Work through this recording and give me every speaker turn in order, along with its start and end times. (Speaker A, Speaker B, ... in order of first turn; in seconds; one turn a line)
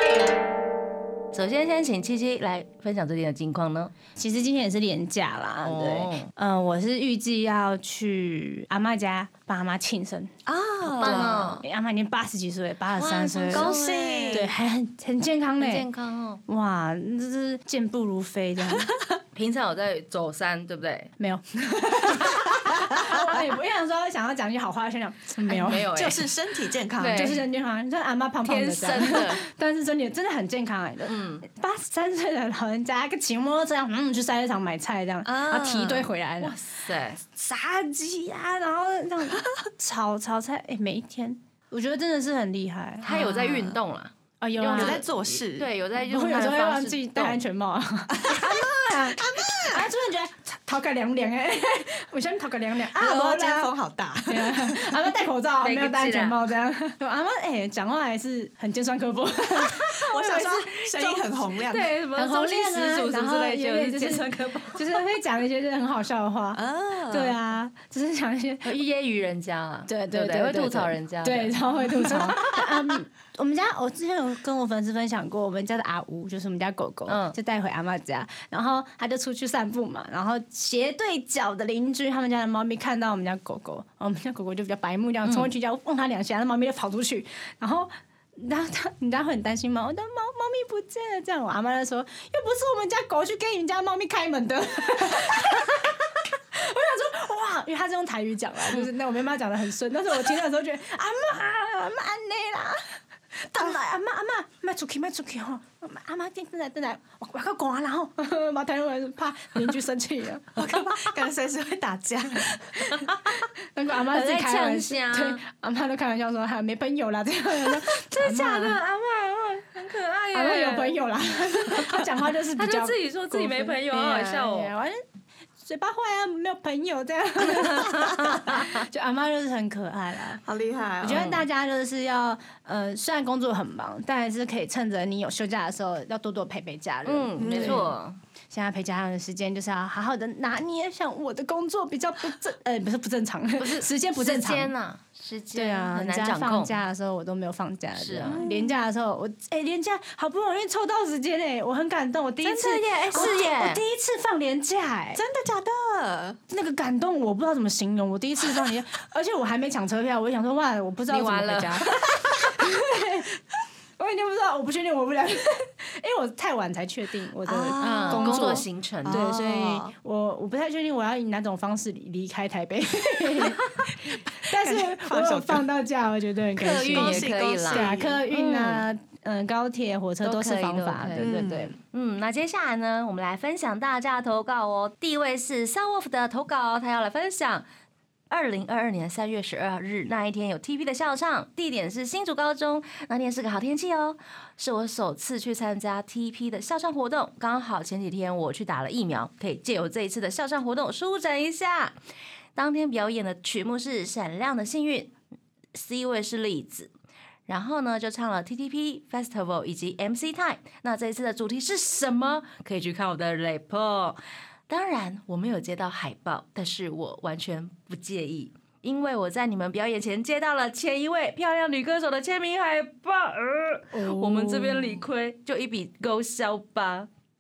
Speaker A: 1.3-3.9
Speaker B: 4.2-10.3
Speaker A: 5.6-6.3
Speaker C: 10.5-11.6
Speaker B: 10.9-13.8
Speaker A: 10.9-11.6
Speaker A: 13.0-14.5
Speaker C: 13.5-14.5
Speaker B: 14.3-15.9
Speaker A: 15.6-16.4
Speaker B: 16.5-18.9
Speaker C: 18.7-19.1
Speaker A: 19.4-21.1
Speaker B: 21.2-25.9
Speaker A: 25.5-26.3
Speaker C: 25.8-27.4
Speaker A: 27.0-27.5
Speaker B: 27.1-36.5
Speaker A: 28.4-29.4
Speaker A: 31.1-31.4
Speaker C: 35.2-36.1
Speaker A: 36.4-37.2
Speaker B: 37.2-43.7
Speaker A: 43.0-47.4
Speaker C: 43.1-43.8
Speaker B: 44.4-45.0
Speaker C: 44.7-45.7
Speaker B: 46.0-53.7
Speaker C: 48.1-49.9
Speaker C: 53.0-55.1
Speaker B: 54.3-61.3
Speaker A: 55.6-56.4
Speaker C: 60.0-61.9
Speaker A: 61.7-65.0
Speaker B: 62.2-68.8
Speaker C: 66.5-67.4
Speaker A: 68.7-72.9
Speaker B: 69.9-102.8
Speaker A: 77.1-77.3
Speaker A: 85.2-85.5
Speaker B: 103.4-111.1
Speaker C: 110.6-112.8
Speaker A: 112.9-113.2
Speaker B: 113.7-119.7
Speaker A: 114.0-115.4
Speaker A: 118.1-121.0
Speaker B: 120.3-125.0
Speaker A: 121.7-124.7
Speaker B: 125.6-130.4
Speaker A: 127.5-128.7
Speaker C: 130.4-131.3
Speaker B: 131.0-137.9
Speaker A: 131.1-131.4
Speaker A: 137.1-138.2
Speaker C: 137.4-137.9
Speaker B: 138.5-144.7
Speaker A: 143.6-146.8
Speaker B: 145.6-155.2
Speaker A: 148.0-148.4
Speaker C: 148.3-148.7
Speaker A: 152.4-153.8
Speaker C: 153.1-153.4
Speaker C: 155.1-156.4
Speaker B: 156.5-163.3
Speaker A: 161.1-162.0
Speaker B: 164.0-181.8
Speaker C: 167.4-169.9
Speaker A: 167.8-169.2
Speaker C: 174.5-175.7
Speaker A: 176.6-178.8
Speaker C: 176.7-178.2
Speaker A: 180.2-187.7
Speaker C: 181.2-181.8
Speaker A: 188.3-201.9
Speaker A: 202.6-205.1
Speaker A: 205.7-206.9
Speaker A: 207.5-227.1
Speaker B: 223.9-225.0